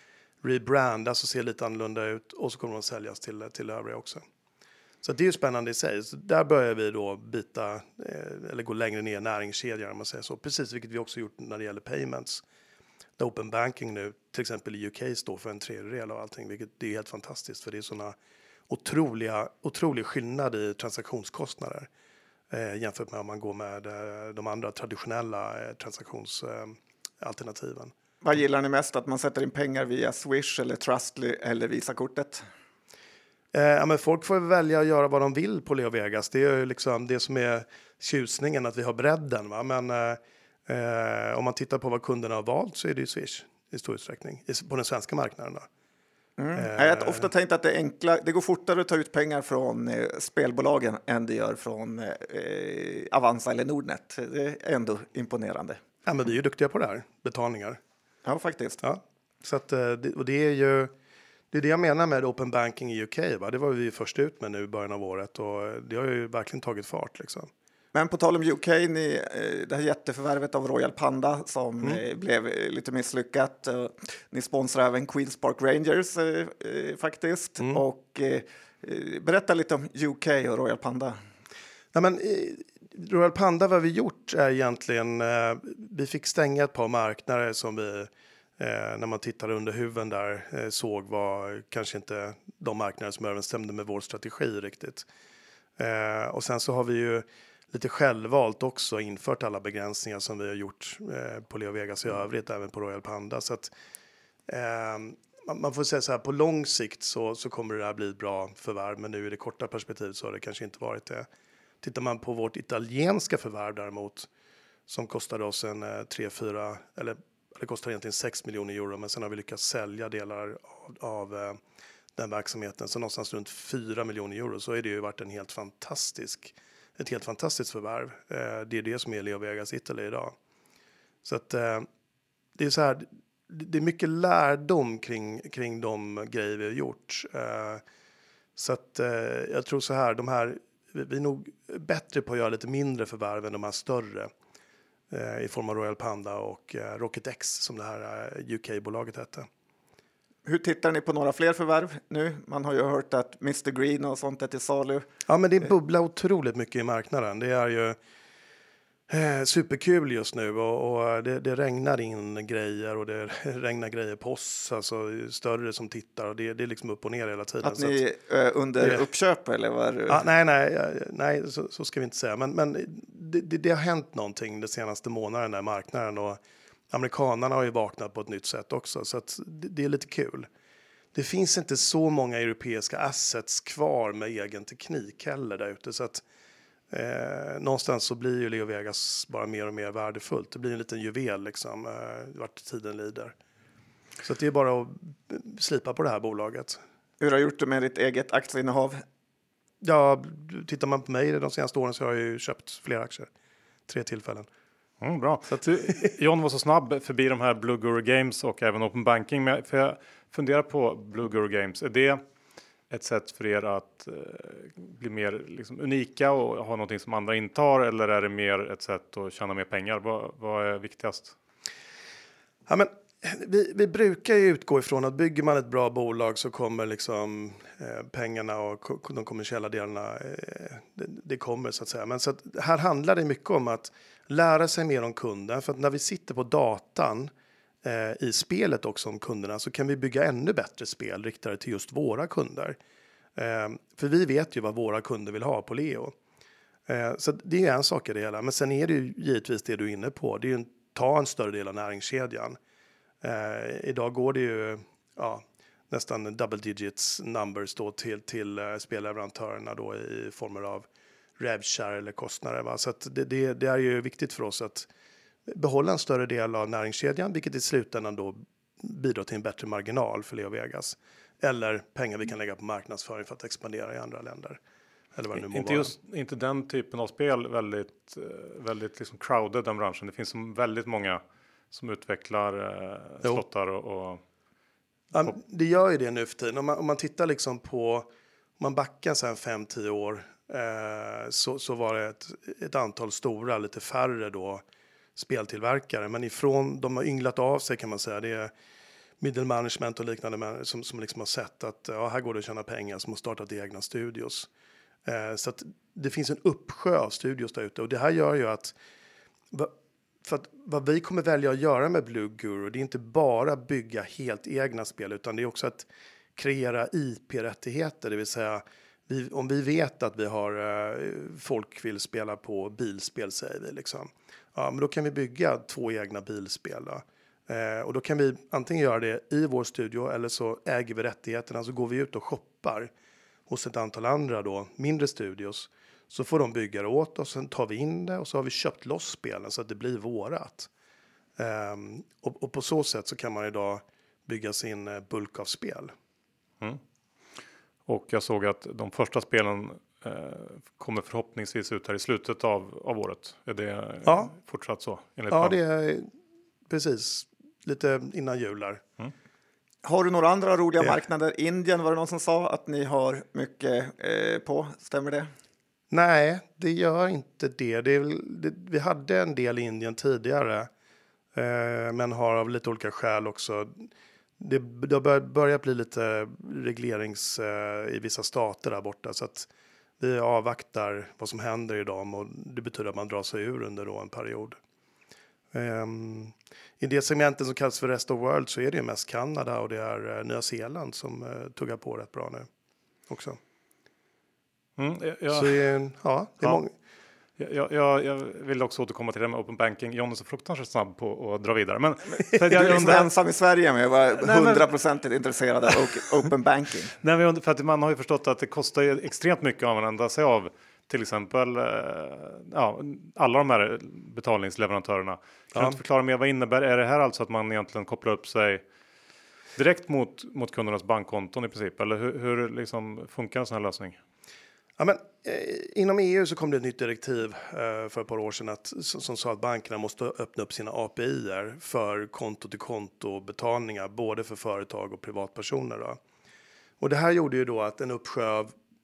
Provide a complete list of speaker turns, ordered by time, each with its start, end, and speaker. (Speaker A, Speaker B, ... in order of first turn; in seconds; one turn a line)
Speaker A: 0.4-4.2
Speaker A: 5.0-12.4
Speaker A: 13.2-18.1
Speaker A: 18.7-21.9
Speaker A: 22.5-27.9
Speaker B: 28.2-32.5
Speaker A: 33.5-45.7
Speaker B: 46.4-55.8
Speaker A: 46.5-47.3
Speaker A: 56.0-57.8
Speaker B: 58.2-58.8
Speaker A: 58.8-60.9
Speaker A: 61.5-67.5
Speaker B: 67.9-81.2
Speaker A: 81.9-95.1
Speaker A: 95.8-103.7
Speaker A: 104.5-111.3
Speaker A: 111.8-114.3
Speaker A: 114.9-121.6
Speaker A: 122.2-130.3
Speaker A: 131.2-131.9
Speaker A: 132.6-137.8
Speaker A: 138.6-144.3
Speaker A: 145.1-149.5
Speaker B: 150.4-155.0
Speaker A: 155.3-157.9
Speaker A: 159.1-168.0
Speaker B: 167.6-170.2
Speaker A: 168.8-169.1
Speaker A: 170.1-180.5
Speaker A: 181.1-186.2
Speaker A: 186.9-193.3
Speaker A: 194.2-196.8
Speaker B: 197.2-199.0
Speaker A: 199.8-203.3
Speaker A: 203.9-204.5
Speaker C: 205.0-212.2
Speaker C: 212.9-221.3
Speaker A: 222.7-237.3
Speaker A: 237.8-242.8
Speaker A: 243.3-246.2
Speaker A: 246.9-252.6
Speaker A: 253.2-260.9
Speaker A: 261.4-264.9
Speaker A: 265.5-274.6
Speaker A: 275.1-275.9
Speaker C: 275.4-284.2
Speaker A: 285.1-294.6
Speaker A: 295.1-298.5
Speaker A: 299.2-304.5
Speaker A: 305.0-308.7
Speaker A: 309.5-332.9
Speaker A: 333.5-340.7
Speaker A: 341.4-345.9
Speaker C: 347.9-355.6
Speaker A: 354.0-354.3
Speaker A: 355.3-356.1
Speaker A: 356.7-358.8
Speaker B: 359.8-365.3
Speaker A: 365.9-370.7
Speaker A: 371.3-373.9
Speaker A: 374.4-379.5
Speaker A: 380.0-384.6
Speaker A: 385.5-392.5
Speaker A: 393.1-393.4
Speaker C: 394.8-395.7
Speaker A: 395.3-396.7
Speaker C: 397.4-403.1
Speaker B: 402.5-406.9
Speaker C: 404.2-404.7
Speaker C: 406.9-418.6
Speaker C: 419.6-424.0
Speaker A: 424.8-436.0
Speaker A: 436.8-438.5